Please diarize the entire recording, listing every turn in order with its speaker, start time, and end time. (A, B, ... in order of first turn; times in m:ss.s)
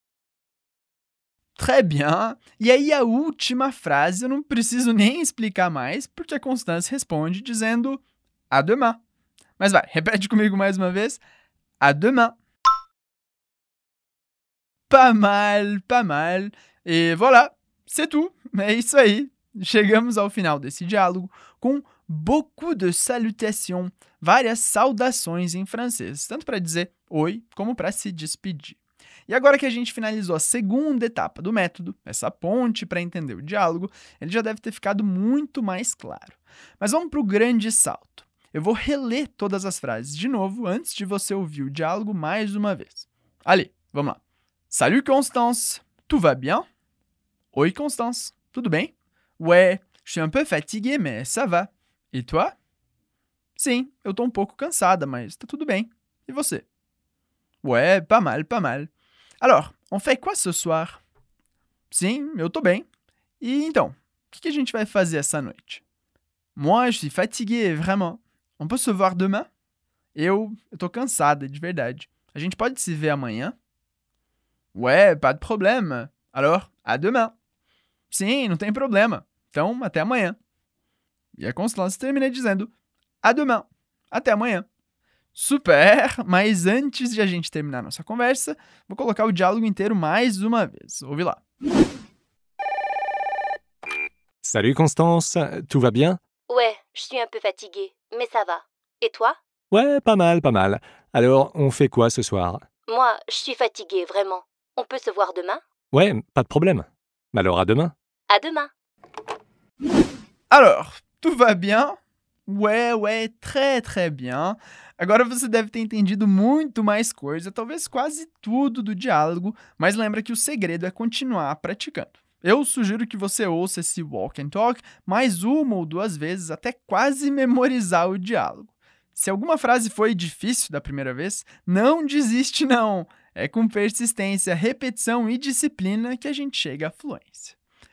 0:01.6-0:09.0 A
0:09.6-0:11.2 A
0:11.8-0:12.4 A
0:14.9-0:28.8 A
0:29.3-0:46.6 A
0:47.5-0:52.5 A
0:53.6-0:56.6 A
0:57.6-0:58.9 A
0:59.4-1:01.0 A
1:01.9-1:02.8 A
1:03.4-1:05.8 A
1:06.6-1:09.5 A
1:10.1-1:13.6 A
1:14.7-1:17.3 A
1:18.1-1:20.4 A
1:21.4-1:22.7 A
1:23.2-1:24.6 A
1:25.3-1:31.4 A
1:34.4-1:36.2 B
1:36.5-1:39.4 C
1:39.7-1:42.6 B
1:42.9-1:45.6 C
1:45.9-1:47.9 B
1:48.3-1:48.7 C
1:50.5-2:17.6 A